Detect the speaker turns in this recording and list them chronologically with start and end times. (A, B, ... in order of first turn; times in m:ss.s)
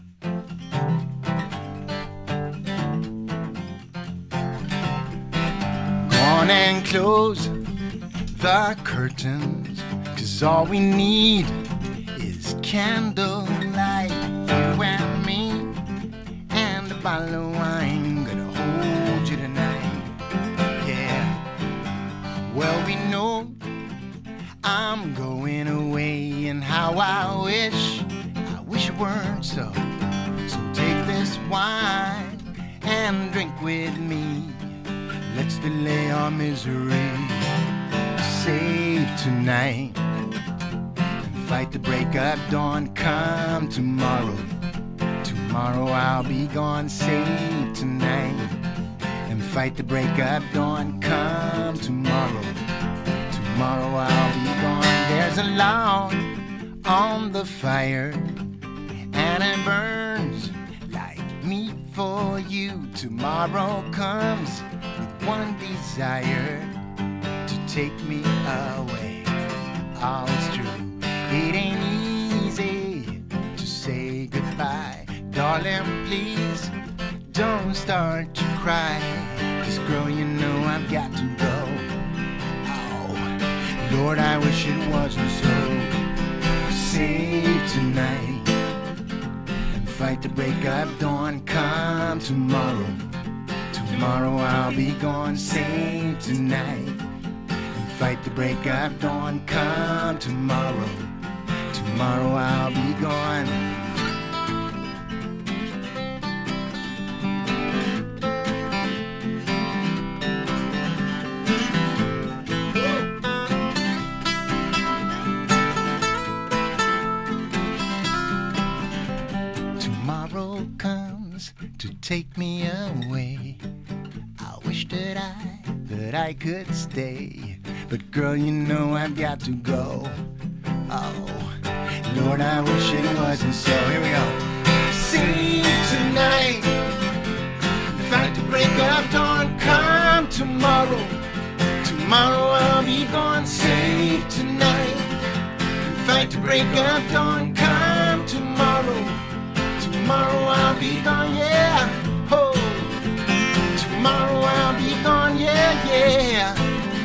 0:06.0-0:07.5 A
0:08.3-0:11.6 A
0:12.1-0:15.8 A
0:16.5-0:20.2 A
0:20.8-0:21.4 A
0:22.4-0:23.6 A
0:24.6-0:29.9 A
0:30.4-0:37.5 A
0:38.2-0:40.0 A
0:41.2-0:44.5 A
0:45.2-0:48.6 A
0:49.2-0:52.6 A
0:53.3-0:58.4 A
0:59.1-1:06.7 A
1:07.4-1:09.3 A
1:09.9-1:16.7 A
1:17.3-1:22.0 A
1:22.6-1:28.6 A
1:29.7-1:33.1 A
1:33.7-1:37.0 A
1:37.7-1:41.1 A
1:41.7-1:43.9 A
1:59.8-2:03.6 A
2:04.4-2:10.2 A
2:10.9-2:16.9 A
2:17.8-2:21.2 A
2:21.8-2:25.2 A
2:25.8-2:29.2 A
2:29.8-2:33.0 A
2:33.7-2:36.8 A